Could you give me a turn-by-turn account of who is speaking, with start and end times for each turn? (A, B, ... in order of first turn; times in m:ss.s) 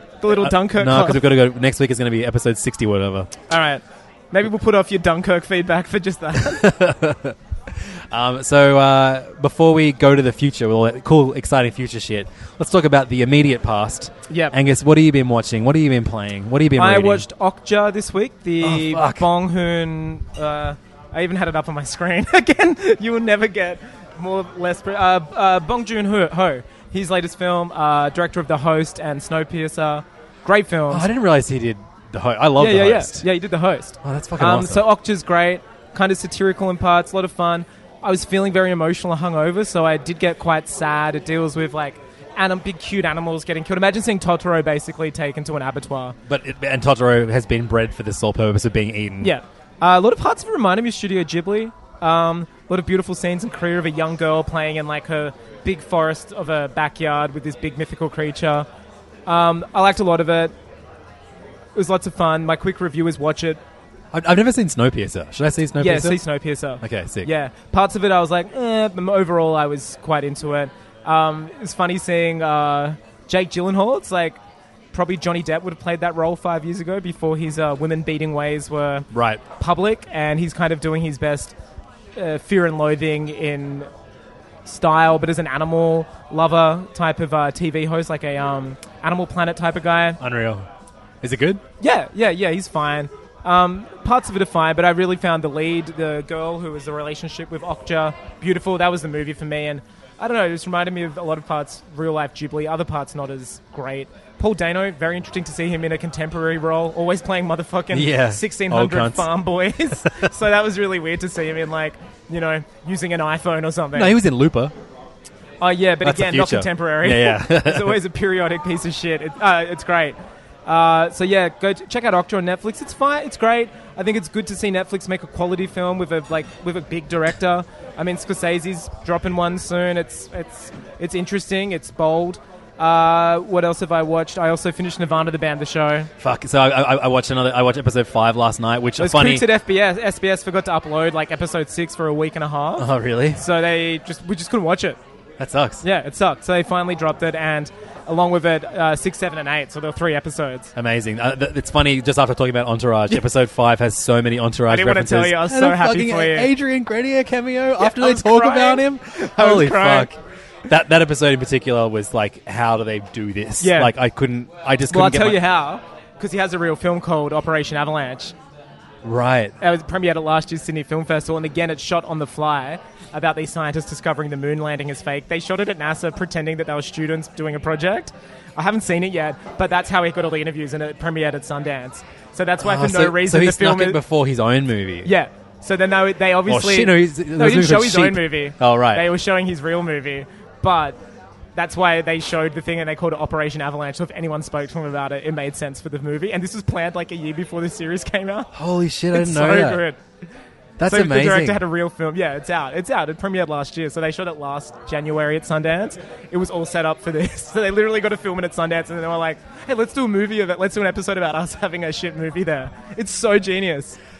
0:00.2-0:01.2 A
0:00.2-0:03.3 B
0:03.5-0:06.6 A
0:06.4-0:17.3 B
0:14.3-0:14.5 A
0:16.8-0:31.1 A
0:18.6-0:19.3 B
0:30.9-0:33.2 B
0:32.6-0:46.2 A
0:34.0-0:34.9 B
0:46.2-0:49.4 B
0:49.2-0:58.7 A
0:59.2-1:00.5 A
1:01.7-1:03.6 A
1:04.1-1:06.2 B
1:05.8-1:14.4 A
1:06.8-1:07.3 B
1:14.9-1:21.5 A
1:19.1-1:19.4 B
1:22.2-1:23.9 A
1:24.6-1:30.2 A
1:30.2-1:30.7 B
1:31.2-1:31.6 B
1:31.8-1:54.2 A
1:47.9-1:49.3 B
1:50.0-1:50.3 B
1:53.9-1:54.7 B
1:55.6-2:16.1 A
1:56.0-1:58.0 B
2:16.2-2:19.5 B
2:19.0-2:25.0 A
2:22.8-2:23.4 B
2:25.4-2:25.8 B
2:25.8-2:30.7 A
2:30.8-2:45.4 B
2:34.7-2:36.5 A
2:37.8-2:40.1 A
2:43.6-2:43.9 A
2:44.9-2:48.3 A
2:49.0-2:49.5 B
2:49.6-3:04.0 A
3:02.6-3:05.1 B
3:05.0-3:11.0 A
3:06.4-3:09.1 B
3:11.5-3:18.5 A
3:18.5-3:19.8 B
3:19.1-3:20.0 A
3:20.8-3:21.6 B
3:20.9-3:34.0 A